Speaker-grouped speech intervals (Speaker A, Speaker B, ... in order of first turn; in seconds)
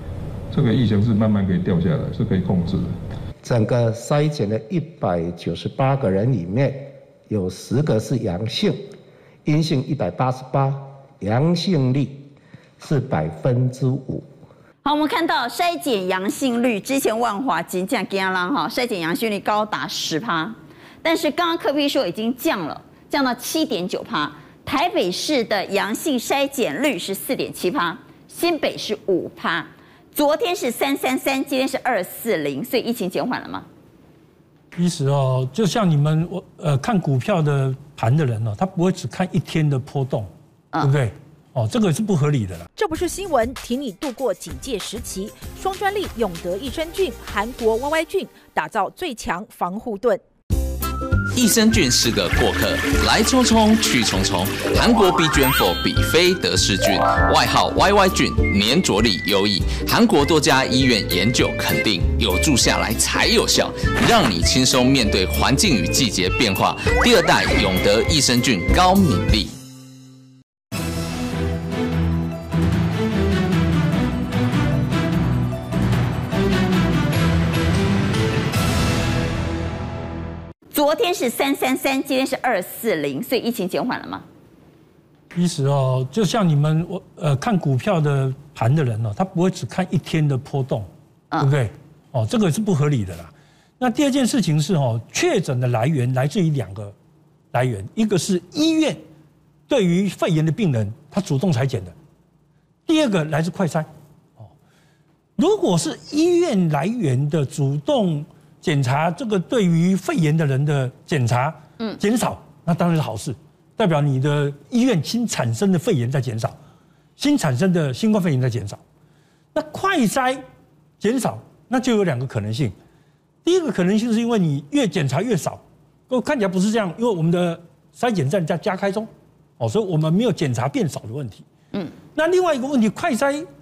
Speaker A: 0.5-2.9
Speaker B: 3.4-8.8, 9.4-12.3, 12.8-14.2
Speaker C: 14.8-33.6, 80.7-84.2
Speaker D: 34.7-42.7, 85.3-96.9, 97.5-99.0, 99.7-101.9, 102.8-103.9, 105.4-116.5, 117.2-118.8, 119.5-120.4, 121.0-122.7, 123.4-131.4, 132.1-133.5
Speaker E: 42.8-50.2
Speaker F: 51.3-69.5